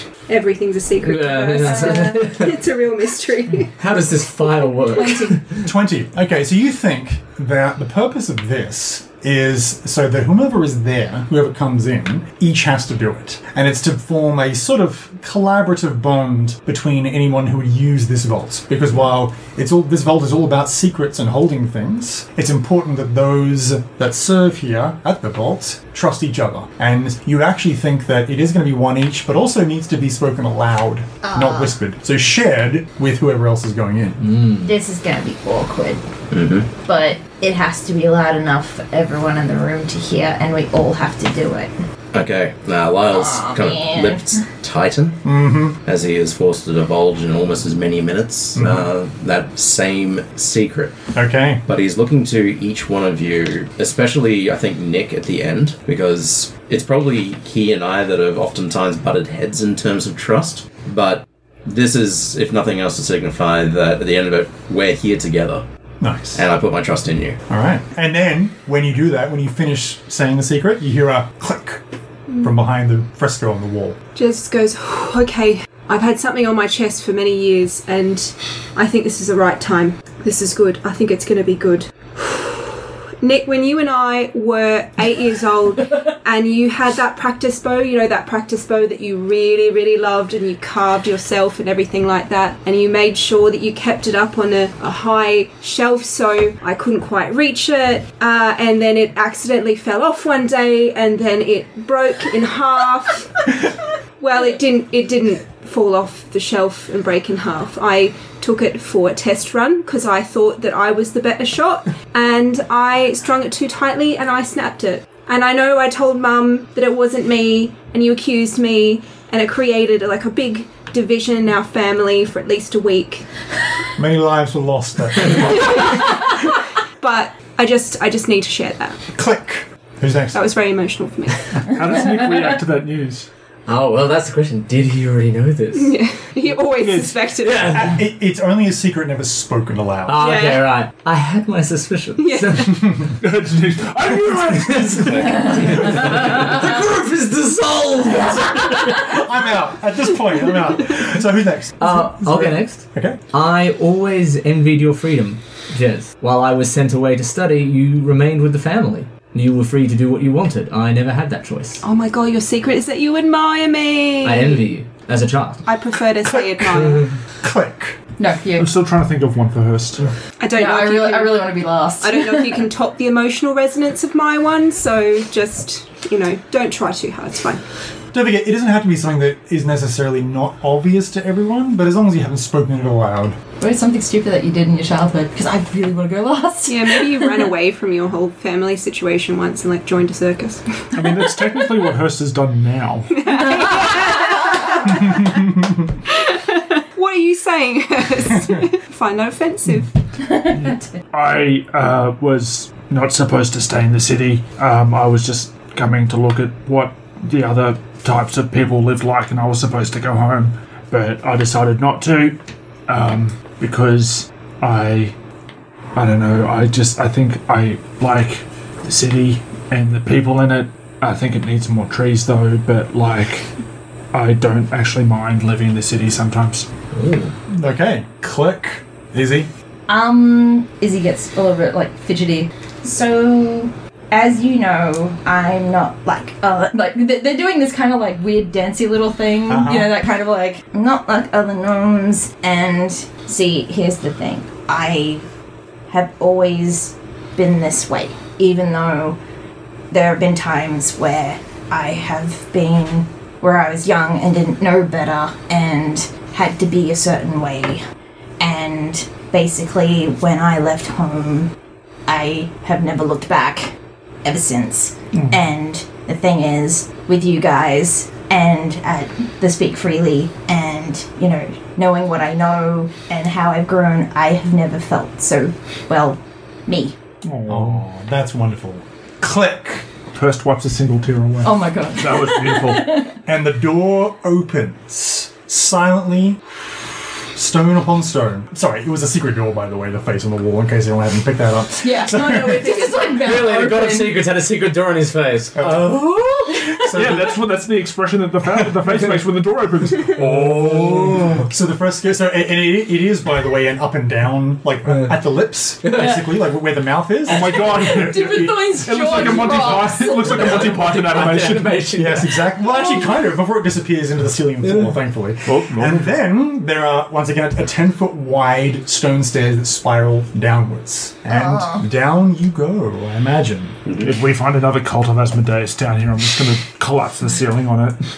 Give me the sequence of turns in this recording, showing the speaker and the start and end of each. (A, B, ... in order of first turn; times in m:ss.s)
0:00.3-0:03.7 A
0:01.0-0:02.6 B
0:01.6-0:02.2 C
0:03.8-0:05.6 B
0:05.0-0:05.2 A
0:05.6-0:34.2 D
0:31.2-0:31.7 C
0:34.2-0:34.7 B
0:34.6-0:36.0 C
0:36.3-0:36.7 E
0:36.8-0:41.7 C
0:42.1-0:45.2 E
0:43.1-0:44.4 C
0:45.2-0:45.8 D
0:45.8-0:50.9 E
0:48.6-0:48.8 D
0:51.1-0:51.6 D
0:51.7-1:05.6 E
1:06.0-1:06.4 D
1:06.3-1:07.4 E
1:07.5-1:11.8 D
1:12.4-1:14.0 D
1:14.2-1:43.6 A
1:44.2-2:03.2 A
2:04.0-2:05.9 D
2:05.3-2:09.0 A
2:09.1-2:10.4 D
2:10.3-2:11.7 A
2:11.6-2:13.3 F
2:13.7-2:15.9 B
2:15.7-2:17.8 A
2:16.7-2:17.2 F
2:17.4-2:17.9 B
2:17.7-2:20.2 D
2:20.1-2:22.8 B
2:20.2-2:20.7 A
2:22.2-2:22.8 A
2:23.2-2:26.0 F
2:24.8-2:29.0 B
2:25.8-2:26.4 E
2:28.9-2:33.2 D
2:31.8-2:41.8 B
2:41.8-2:44.6 A
2:44.2-2:45.6 B
2:45.6-2:47.1 A
2:46.3-2:46.8 D
2:47.4-2:48.0 D
2:48.2-2:48.7 C
2:48.6-2:50.1 F
2:50.4-2:57.6 A
2:50.5-2:52.6 C
2:58.1-3:03.4 D
3:03.6-3:07.5 C
3:06.7-3:11.6 A
3:10.9-3:13.2 F
3:13.1-3:15.3 A
3:13.4-3:14.7 C
3:14.9-3:15.9 D
3:16.1-3:19.9 A
3:20.2-3:20.9 C
3:20.6-3:35.1 F
3:35.9-3:43.5 F
3:44.1-3:46.7 F
3:46.9-3:47.3 B
3:47.5-3:49.5 D
3:49.9-4:05.3 C
3:59.5-4:00.0 D
4:05.9-4:09.2 C
4:09.9-4:17.8 C
4:18.4-4:21.5 C
4:22.1-4:36.9 C
4:25.1-4:25.4 F
4:37.2-4:37.9 F
4:37.4-4:39.9 D
4:40.1-4:43.0 F
4:41.4-4:43.2 C
4:43.2-4:46.6 D
4:47.3-4:53.0 D
4:51.8-4:54.2 C
4:53.0-4:56.7 B
4:55.5-4:55.9 D
4:56.7-4:57.4 D
4:56.9-5:01.4 F
5:00.2-5:07.6 D
5:05.8-5:06.1 B
5:07.3-5:11.8 F
5:07.3-5:10.8 C
5:10.2-5:12.6 B
5:11.9-5:23.8 D
5:12.7-5:13.1 C
5:14.6-5:14.9 B
5:15.5-5:16.1 F
5:21.3-5:21.8 C
5:23.8-5:24.2 E
5:24.0-5:27.9 F